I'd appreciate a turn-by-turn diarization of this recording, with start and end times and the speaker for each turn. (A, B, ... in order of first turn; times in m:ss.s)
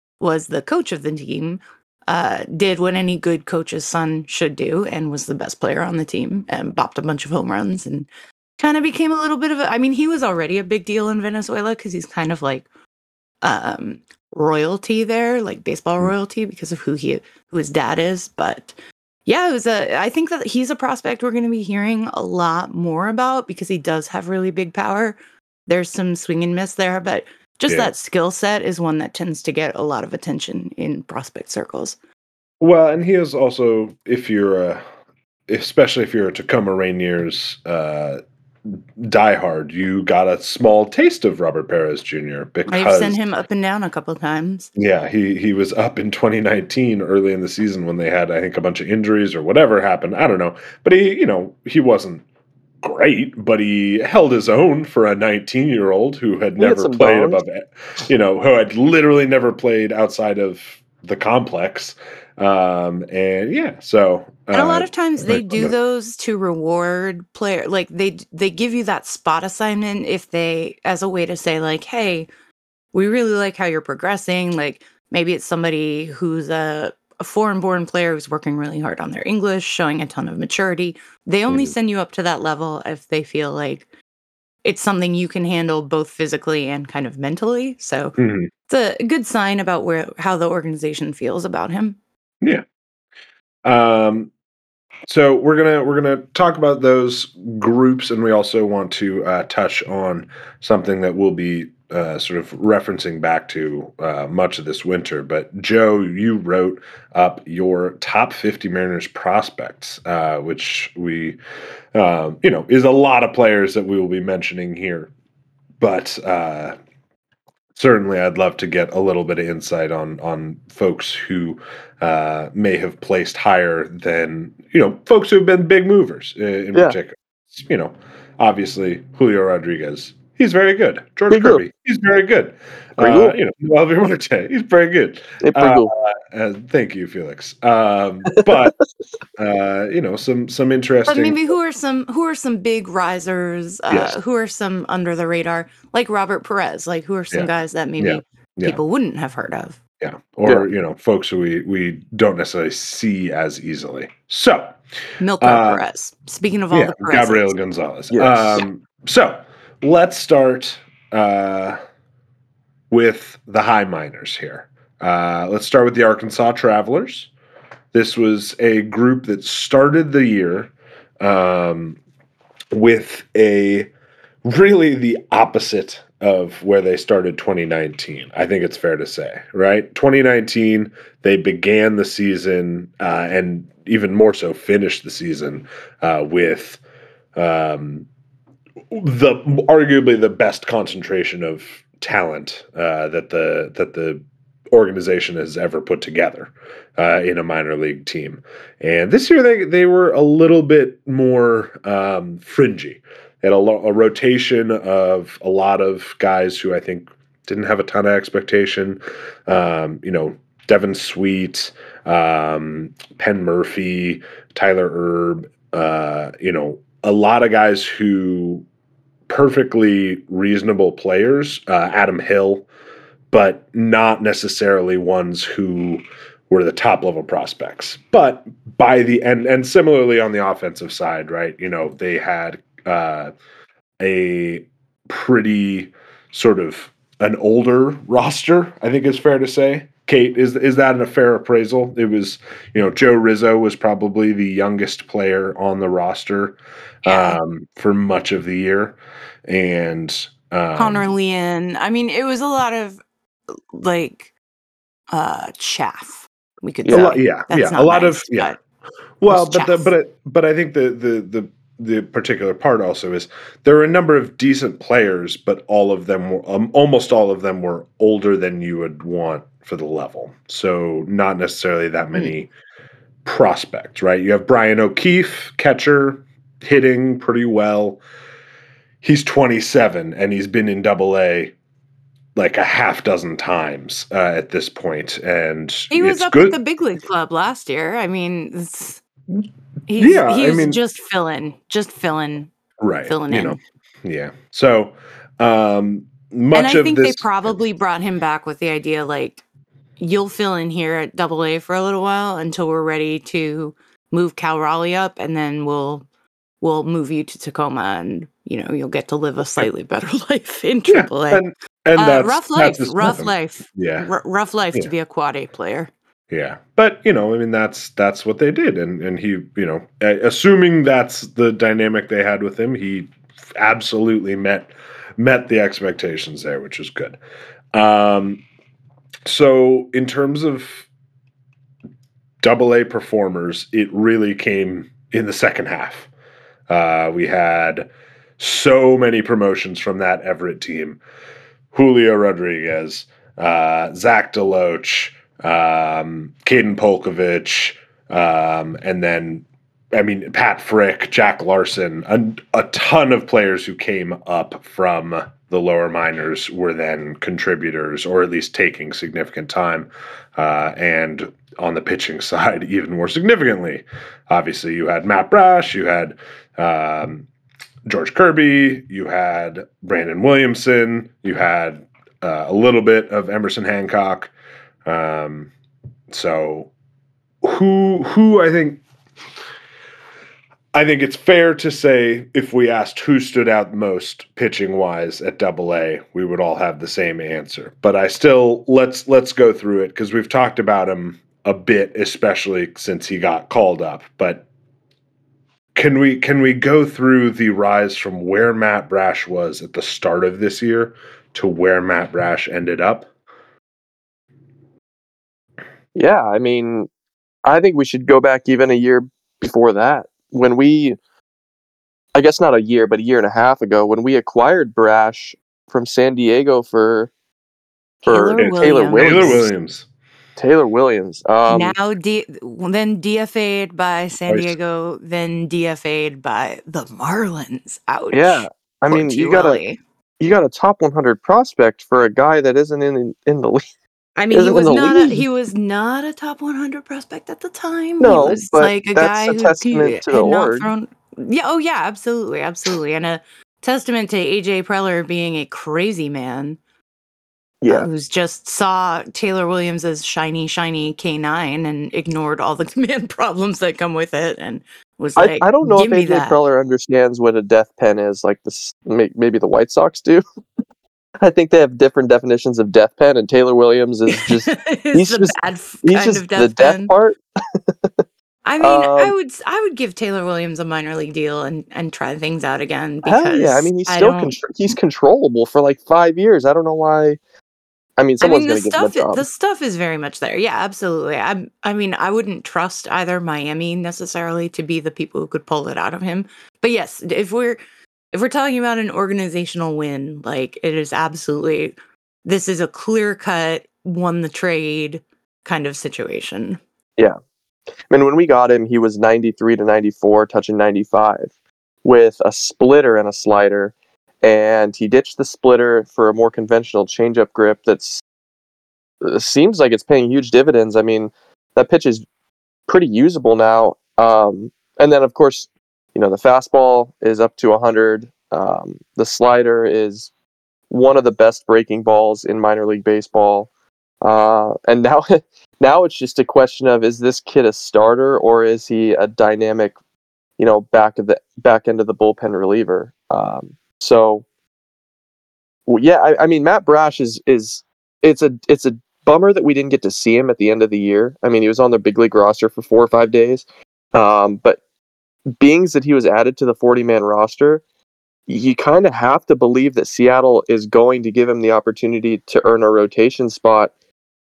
0:00.2-0:08.1 A
0:08.6-0:12.7 A
0:13.4-0:18.7 A
0:19.2-0:32.0 A
0:32.6-0:34.8 B
0:35.5-0:43.2 B
0:42.7-0:44.7 A
0:44.8-0:52.2 B
0:52.8-1:05.7 B
0:56.6-0:57.4 C
1:04.5-1:12.3 A
1:12.9-1:23.9 A
1:21.5-1:21.7 B
1:24.6-1:32.0 A
1:28.2-1:28.5 B
1:33.6-1:34.3 B
1:35.1-1:51.4 B
1:51.9-1:55.1 B
1:55.8-1:56.8 B
1:57.7-2:18.8 B
2:11.3-2:11.6 C
2:13.0-2:13.4 C
2:15.4-2:15.9 C
2:19.4-2:21.4 B
2:21.0-2:29.8 A
2:23.9-2:24.1 B
2:27.3-2:28.8 B
2:30.0-2:34.8 B
2:35.2-2:37.5 A
2:35.4-2:35.8 B
2:36.7-2:41.8 B
2:38.1-2:38.6 C
2:42.9-2:47.3 B
2:47.9-2:52.0 B
2:52.7-2:53.9 B
2:54.4-3:06.8 B
3:07.4-3:08.0 B
3:08.9-3:38.6 B
3:39.3-3:42.6 B
3:43.3-3:53.3 B
3:54.0-4:11.1 B
4:07.0-4:07.4 A
4:10.7-4:13.0 A
4:13.7-4:14.3 A
4:15.1-4:18.6 A
4:16.8-4:17.1 C
4:16.9-4:18.5 B
4:19.2-4:32.5 B
4:19.3-4:19.9 A
4:33.2-4:38.0 B
4:39.0-4:41.5 B
4:42.4-4:46.6 B
4:45.9-4:49.0 A
4:49.9-4:52.5 A
4:50.0-4:50.8 B
4:52.8-4:57.3 B
4:53.0-4:53.6 A
4:56.5-4:59.4 A
5:00.0-5:06.0 A
5:06.6-5:15.9 A
5:10.9-5:14.0 B
5:16.3-5:27.2 B
5:27.7-5:28.4 B
5:29.2-5:30.9 B
5:32.4-5:36.1 B
5:36.7-5:41.0 B
5:41.7-6:07.2 B
6:07.8-6:14.3 B
6:14.8-6:15.5 B
6:16.1-6:16.7 B
6:17.4-6:18.8 B
6:20.7-6:34.4 B
6:35.7-6:43.1 B
6:45.9-6:46.9 C
6:47.4-6:51.0 C
6:52.1-6:57.1 C
6:58.0-6:59.5 C
6:58.0-6:59.5 A
6:58.4-6:59.9 B
7:00.4-7:01.7 C
7:01.5-7:09.8 A
7:04.3-7:04.6 B
7:08.1-7:09.6 C
7:10.2-7:13.6 C
7:14.2-7:26.6 A
7:14.3-7:15.2 C
7:18.0-7:20.7 C
7:27.6-7:27.9 C
7:27.7-7:36.4 A
7:35.2-7:40.2 C
7:41.2-7:47.9 C
7:44.1-7:46.9 A
7:48.4-7:54.4 A
7:48.6-7:49.1 C
7:53.0-7:57.2 C
7:58.0-7:59.2 C
7:58.2-8:07.6 A
8:08.1-8:16.6 A
8:17.9-8:21.3 C
8:21.8-8:28.0 C
8:29.0-8:32.0 C
8:32.7-8:40.1 C
8:40.7-8:43.5 C
8:44.0-8:49.7 C
8:50.4-8:54.2 C
8:55.7-9:04.6 C
9:05.4-9:07.6 C
9:08.3-9:13.7 C